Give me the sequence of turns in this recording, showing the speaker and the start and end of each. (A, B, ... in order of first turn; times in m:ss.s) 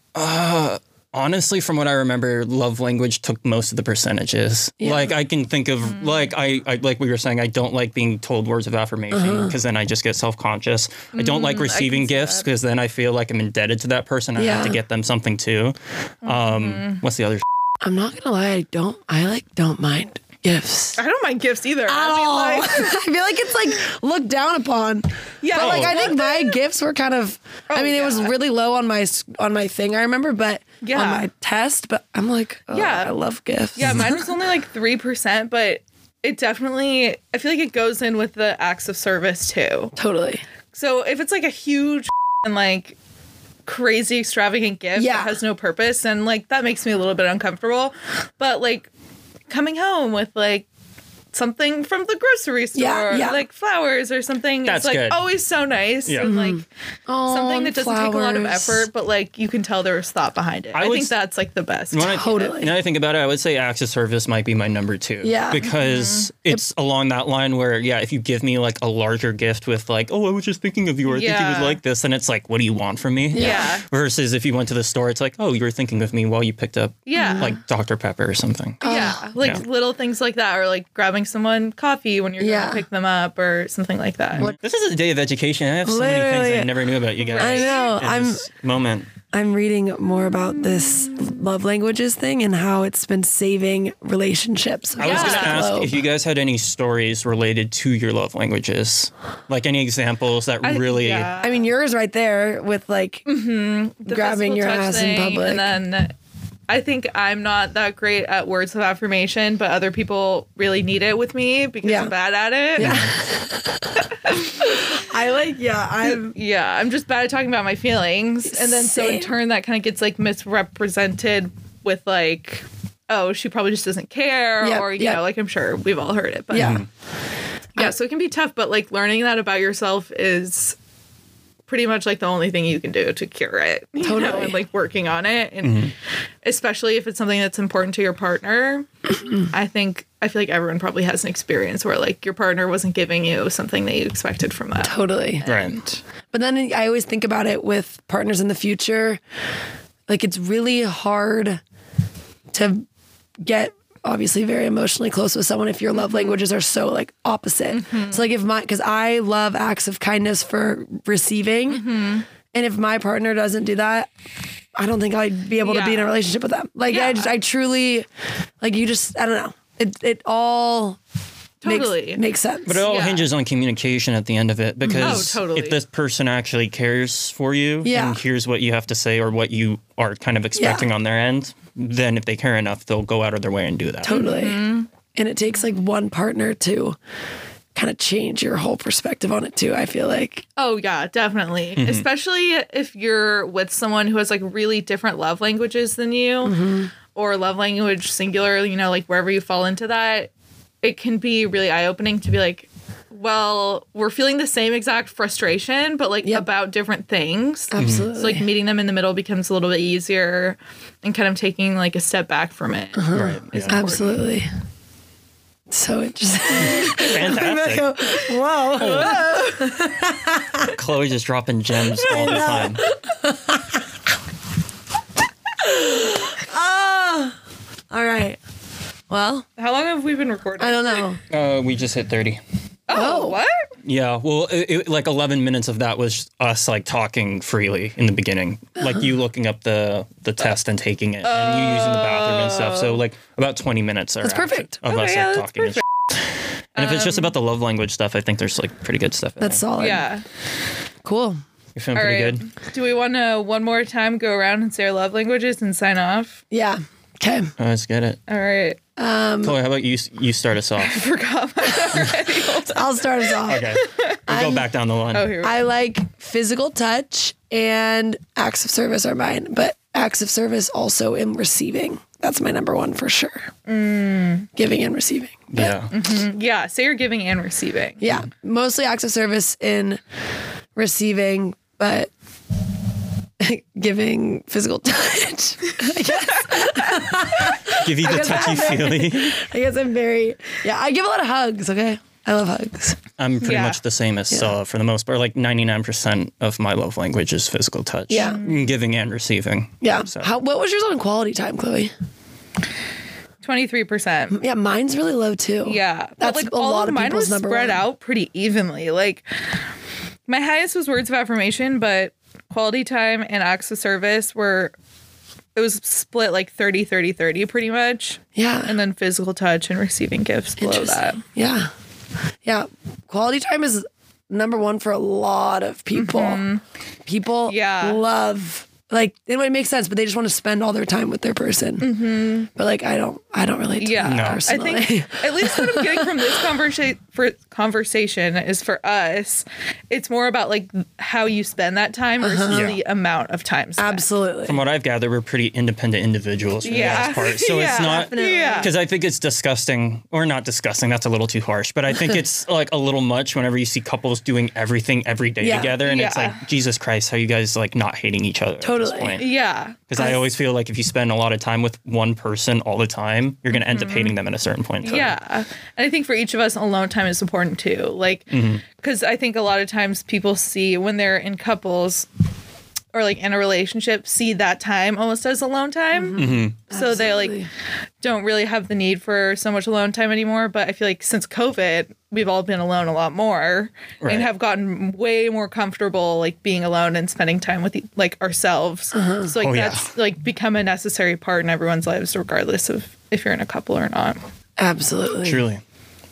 0:00.1-0:17.4 A
0:04.8-0:05.2 B
0:05.8-0:06.3 C
0:09.1-0:09.5 B
0:11.1-0:12.5 C
0:14.4-0:14.8 B
0:16.2-0:17.0 C
0:17.8-0:21.0 B
0:21.0-0:23.0 C
0:21.9-0:34.1 B
0:25.4-0:26.6 C
0:25.5-0:26.2 A
0:27.7-0:28.3 C
0:30.8-0:31.3 C
0:32.7-0:33.1 C
0:33.7-0:39.9 C
0:40.0-0:40.4 B
0:40.7-0:43.0 C
0:43.6-0:48.9 C
0:44.9-0:45.4 B
0:49.5-0:50.7 C
0:51.3-0:56.6 C
0:52.7-0:53.4 B
0:54.6-0:55.2 A
0:56.2-0:58.9 B
0:57.2-1:02.2 C
1:00.7-1:01.1 A
1:01.9-1:19.6 A
1:02.0-1:02.7 B
1:05.2-1:05.6 B
1:05.6-1:06.3 C
1:11.1-1:11.8 C
1:13.3-1:13.7 B
1:13.3-1:13.8 C
1:17.0-1:17.5 C
1:17.2-1:17.5 B
1:18.8-1:19.3 B
1:18.8-1:24.5 C
1:22.4-1:22.8 B
1:24.4-1:29.1 A
1:25.8-1:26.7 B
1:27.3-1:28.0 C
1:27.4-1:28.5 B
1:29.3-1:35.9 B
1:30.7-1:31.4 C
1:35.0-1:41.3 A
1:35.0-1:35.7 C
1:40.6-1:41.7 C
1:41.4-1:43.3 B
1:43.2-1:46.1 C
1:44.0-1:45.8 B
1:46.7-1:53.0 C
1:51.8-1:52.1 B
1:52.7-1:54.0 B
1:52.8-1:53.1 A
1:54.2-1:54.8 C
1:54.6-1:56.3 B
1:56.0-2:06.8 C
1:58.5-1:59.3 B
2:04.6-2:05.2 B
2:06.5-2:06.8 B
2:06.5-2:06.8 A
2:07.7-2:10.8 C
2:11.7-2:15.9 C
2:14.0-2:14.6 B
2:15.6-2:15.9 A
2:16.4-2:26.0 C
2:24.8-2:25.4 B
2:25.4-2:25.8 A
2:26.3-2:29.2 B
2:30.1-2:31.6 B
2:32.5-2:32.8 B
2:33.4-2:41.8 B
2:36.0-2:36.4 C
2:37.7-2:38.2 C
2:41.7-2:42.3 C
2:42.5-2:44.1 B
2:44.8-2:48.1 B
2:45.6-2:46.1 C
2:46.9-2:47.3 C
2:48.6-2:51.0 B
2:51.6-2:52.2 C
2:51.6-2:52.8 B
2:52.6-3:04.2 A
2:52.8-2:53.3 C
2:54.8-2:55.2 B
2:54.9-2:55.8 C
2:57.8-2:58.2 B
3:00.6-3:00.9 B
3:04.0-3:07.0 B
3:04.1-3:04.9 C
3:07.7-3:10.4 B
3:10.6-3:16.6 C
3:11.8-3:12.0 A
3:16.4-3:16.9 B
3:17.1-3:20.3 C
3:20.8-3:34.2 C
3:27.7-3:28.5 B
3:27.8-3:28.1 A
3:33.0-3:34.5 B
3:33.1-3:33.8 A
3:35.7-3:40.7 B
3:36.6-3:37.9 A
3:38.8-3:39.3 A
3:38.8-3:39.7 C
3:40.6-3:42.8 A
3:42.0-3:43.8 B
3:45.6-3:47.4 B
3:47.9-3:48.4 B
3:49.1-3:49.5 B
3:49.6-3:51.1 C
3:50.6-3:51.2 B
3:51.3-3:52.4 A
3:52.9-3:53.6 C
3:52.9-3:53.4 B
3:53.8-4:05.8 A
4:01.2-4:03.0 C
4:04.2-4:04.8 B
4:04.8-4:05.8 C
4:06.7-4:07.3 C
4:06.8-4:09.6 A
4:09.4-4:10.0 B
4:09.8-4:10.2 C
4:11.0-4:11.4 B
4:11.8-4:12.4 A
4:11.9-4:16.4 C
4:16.5-4:17.5 B
4:17.6-4:18.2 A
4:18.3-4:18.8 C
4:19.0-4:19.6 B
4:19.4-4:21.0 A
4:20.8-4:24.2 C
4:21.9-4:22.2 A
4:22.7-4:23.7 B
4:23.5-4:25.3 A
4:24.3-4:24.7 B
4:25.1-4:25.6 C
4:25.4-4:33.5 B
4:33.7-4:34.5 C
4:34.6-4:35.8 B
4:35.5-4:35.9 A
4:35.9-4:38.0 C
4:38.0-4:40.0 B
4:40.8-4:42.1 B
4:43.4-4:53.0 B
4:45.8-4:46.9 C
4:47.7-4:49.4 A
4:53.2-5:00.3 A
4:53.4-4:53.8 C
4:58.1-4:58.4 B
4:58.2-4:58.7 C
4:59.8-5:01.9 B
5:03.4-5:04.4 C
5:04.3-5:07.8 B
5:05.6-5:09.2 C
5:10.3-5:14.7 C
5:15.5-5:21.2 C
5:18.4-5:18.8 B
5:20.6-5:21.7 B
5:22.4-5:26.4 B
5:25.9-5:26.6 C
5:27.0-5:36.1 B
5:27.4-5:28.0 C
5:31.8-5:32.5 C
5:33.8-5:44.0 C
5:34.0-5:34.4 A
5:42.2-5:42.6 B
5:42.5-5:42.8 A
5:43.8-5:44.6 B
5:44.4-6:05.1 A
5:46.6-5:48.7 B
5:46.6-5:48.7 C
5:55.4-5:55.8 B
5:55.8-5:56.4 C
5:58.6-5:59.2 B
5:59.2-5:59.8 C
6:03.5-6:04.1 C
6:04.8-6:12.1 C
6:08.3-6:08.6 A
6:12.9-6:17.4 C
6:15.9-6:17.5 B
6:16.2-6:16.6 A
6:18.0-6:34.2 C
6:24.0-6:24.3 A
6:28.9-6:29.3 B
6:29.4-6:29.9 A
6:34.6-6:35.4 B
6:35.2-6:35.6 A